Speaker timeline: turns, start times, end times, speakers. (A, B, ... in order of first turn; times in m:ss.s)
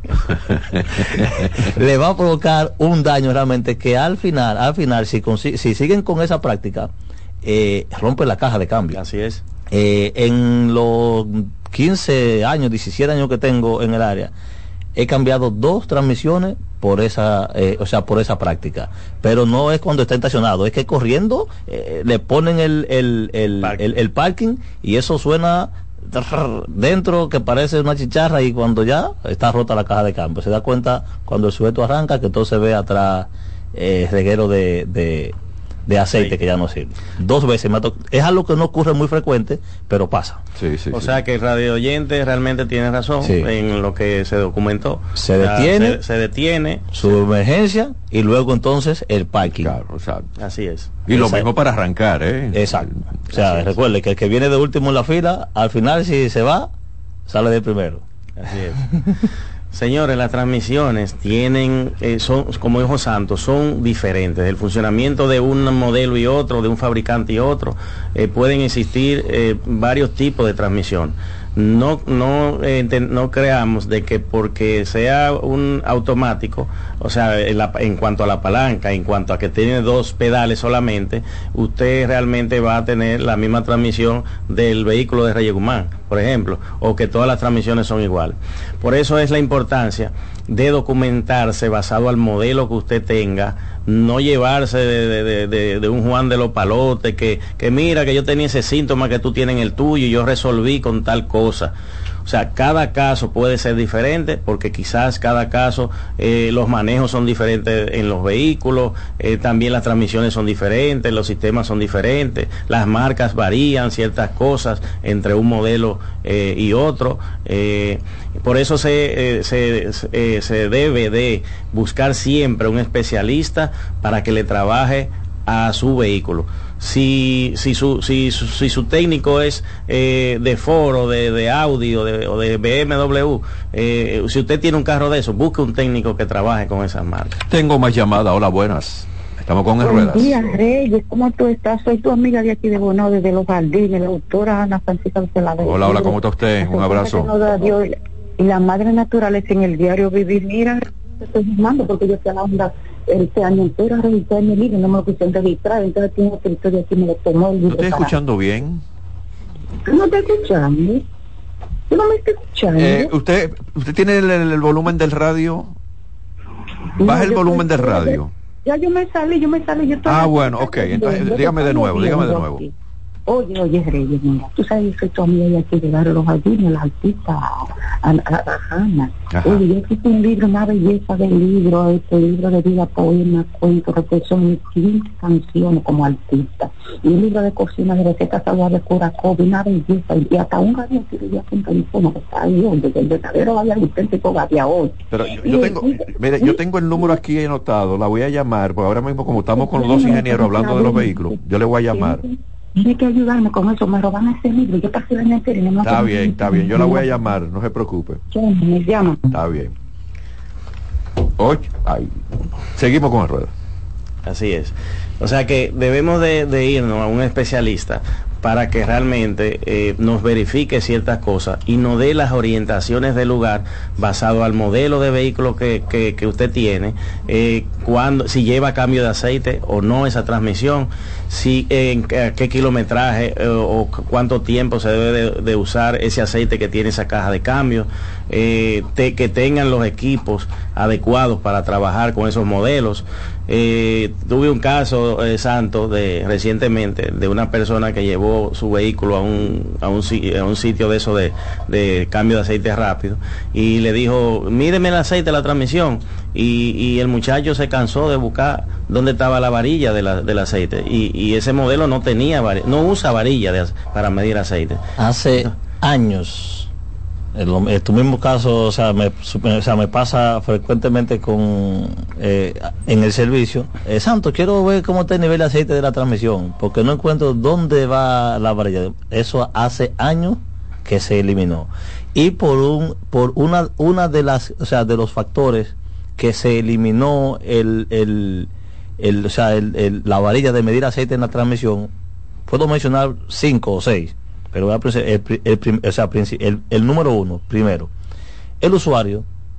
0:00.3-0:01.7 A
0:01.6-0:06.9 B
0:07.4-0:09.0 B
0:08.9-0:09.4 C
0:09.7-0:14.3 B
0:15.0-0:35.4 B
0:35.9-0:40.4 B
0:40.6-0:41.2 A
0:40.9-0:47.2 C
0:43.2-0:43.5 B
0:45.2-0:46.0 B
0:46.9-0:49.7 B
0:49.4-0:50.3 A
0:50.4-0:51.0 C
0:51.1-0:53.7 A
0:51.1-0:51.5 B
0:52.5-0:56.7 B
0:57.3-0:58.0 B
0:58.4-0:58.9 C
0:59.7-1:41.7 C
1:42.3-2:17.4 C
2:17.5-2:20.6 A
2:19.8-2:38.2 D
2:25.6-2:27.4 A
2:37.7-2:38.8 A
2:39.9-2:41.0 D
2:41.9-2:43.1 D
2:42.7-2:45.8 A
2:47.0-2:52.7 D
2:47.0-2:48.3 A
2:50.0-2:52.6 A
2:53.3-3:17.2 D
2:59.3-2:59.6 A
3:15.1-3:22.2 A
3:19.5-3:21.4 D
3:21.9-3:27.1 D
3:25.8-3:28.2 A
3:28.3-3:29.3 D
3:29.3-3:29.7 A
3:31.4-3:32.1 A
3:32.8-3:33.5 A
3:34.3-4:24.8 C
4:25.0-4:26.7 B
4:27.4-4:51.9 B
4:52.5-4:57.9 B
4:58.6-4:59.3 B